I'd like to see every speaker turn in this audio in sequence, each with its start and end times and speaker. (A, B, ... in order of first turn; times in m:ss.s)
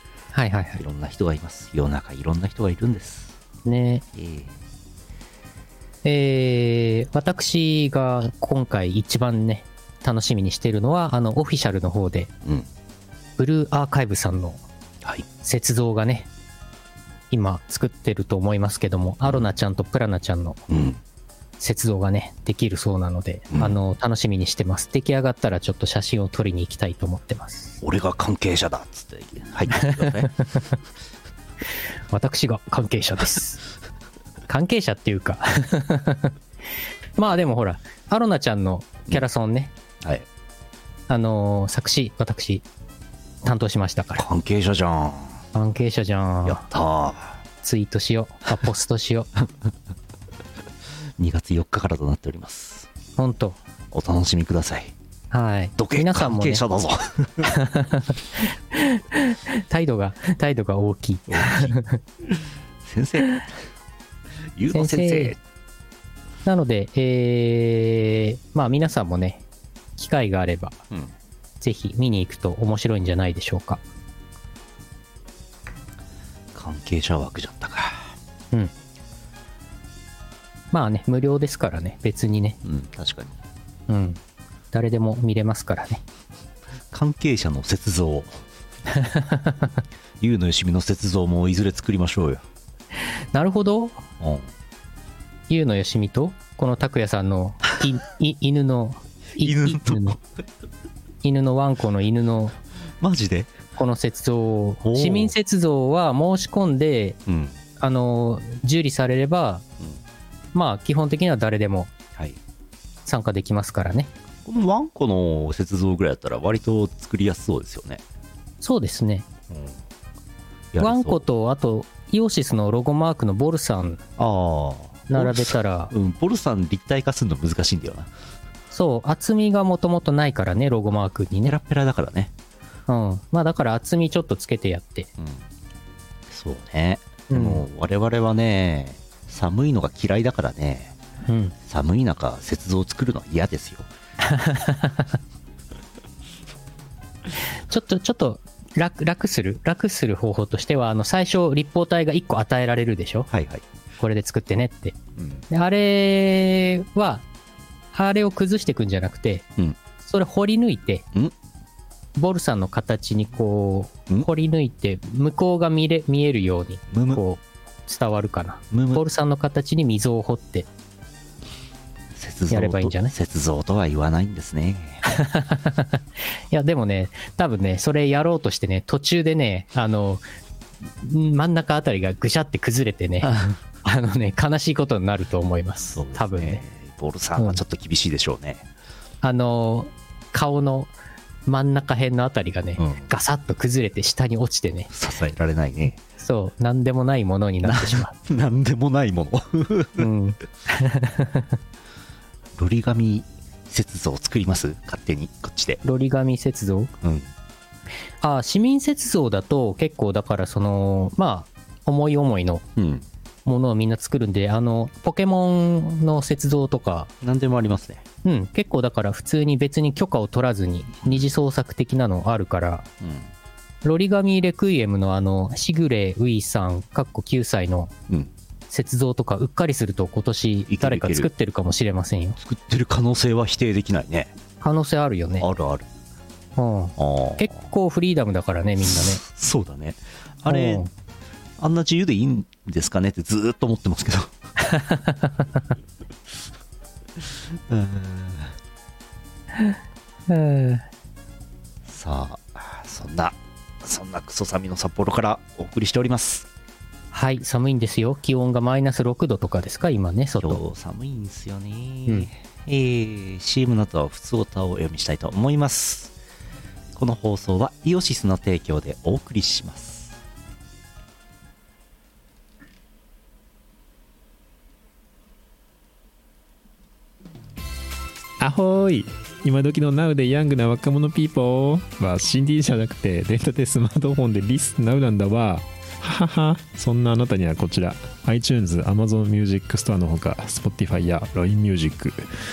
0:00.3-0:00.8 A
0:00.8-0:03.4 B
0:03.6-0:04.0 A
0:04.1-0:04.6 B
0:06.0-0:12.3 A
0:13.4-0:14.6 A
0:15.4-0:16.3 A
0:17.3-0:20.6 A
0:20.7-0:21.0 B
0:21.6-0:27.8 A
0:23.5-0:23.8 B
0:27.8-0:30.3 B
0:29.8-0:30.7 A
0:32.1-0:33.6 A
0:34.5-0:36.3 A
0:37.2-0:39.7 A
0:41.1-0:42.6 A
0:43.4-0:44.2 A
0:44.2-0:45.4 B
0:45.5-0:46.6 A
0:46.4-0:47.4 B
0:47.6-0:49.3 A
0:51.2-0:52.9 B
0:53.2-0:53.6 A
0:53.9-0:54.9 B
0:55.3-0:56.6 A
0:55.8-0:57.5 B
0:57.4-1:02.0 A
1:01.3-1:01.8 B
1:02.3-1:03.5 B
1:04.6-1:05.4 B
1:04.7-1:05.3 A
1:06.4-1:09.4 A
1:10.0-1:10.8 A
1:11.6-1:13.8 A
1:16.5-1:18.1 B
1:20.7-1:22.6 A
1:22.6-1:23.4 B
1:23.9-1:24.2 A
1:24.7-1:26.0 A
1:26.9-1:28.4 B
1:28.9-1:29.8 A
1:30.2-1:32.4 B
1:33.2-1:34.0 A
1:34.2-1:34.5 B
1:35.5-1:40.2 A
1:39.4-1:40.2 B
1:41.2-1:42.6 A
1:43.0-1:43.6 B
1:43.8-1:47.2 A
1:44.8-1:45.3 B
1:47.2-1:47.6 B
1:47.8-1:49.6 A
1:50.5-1:51.9 A
1:53.0-1:54.1 A
1:54.4-1:58.0 B
1:58.6-1:59.2 A
1:59.5-1:59.8 B
2:00.7-2:01.2 B
2:00.8-2:04.0 A
2:04.2-2:08.1 B
2:05.1-2:05.9 A
2:08.7-2:11.5 A
2:11.4-2:12.3 B
2:12.9-2:15.1 A
2:15.2-2:15.4 B
2:16.3-2:21.0 B
2:17.3-2:17.6 A
2:21.2-2:21.5 A
2:21.7-2:23.9 B
2:24.2-2:25.2 A
2:27.4-2:33.3 A
2:33.3-2:33.6 B
2:34.0-2:35.0 A
2:35.2-2:35.4 B
2:35.5-2:37.2 A
2:37.9-2:39.5 A
2:40.0-2:41.0 A
2:42.1-2:50.7 A
2:46.9-2:47.2 B
2:48.7-2:49.0 B
2:52.1-2:55.0 B
2:52.5-2:53.1 A
2:55.1-3:00.2 A
3:01.0-3:03.3 A
3:03.2-3:03.6 B
3:03.8-3:06.6 A
3:05.9-3:08.7 B
3:09.2-3:10.9 A
3:11.4-3:14.9 A
3:12.8-3:13.1 B
3:14.9-3:16.0 B
3:16.0-3:18.1 A
3:17.6-3:20.1 B
3:20.0-3:21.5 A
3:22.6-3:25.8 B
3:25.8-3:26.9 A
3:27.0-3:27.3 B
3:28.2-3:32.6 A
3:32.8-3:33.1 B
3:33.4-3:37.1 A
3:37.2-3:38.0 B
3:38.2-3:42.9 A
3:43.0-3:43.3 B
3:43.8-3:47.9 A
3:48.7-3:52.4 A
3:50.7-3:51.3 B
3:52.4-3:54.3 B
3:54.6-3:55.5 A
3:55.4-3:55.9 B
3:56.6-3:59.2 A
3:57.0-3:57.6 B
3:58.8-4:00.8 B
4:00.4-4:00.9 A
4:01.6-4:04.3 B
4:04.6-4:05.6 A
4:07.7-4:08.6 B
4:10.3-4:10.8 A
4:11.9-4:16.5 B
4:17.1-4:20.6 A
4:20.4-4:26.1 B
4:27.0-4:30.2 B
4:38.4-4:52.2 C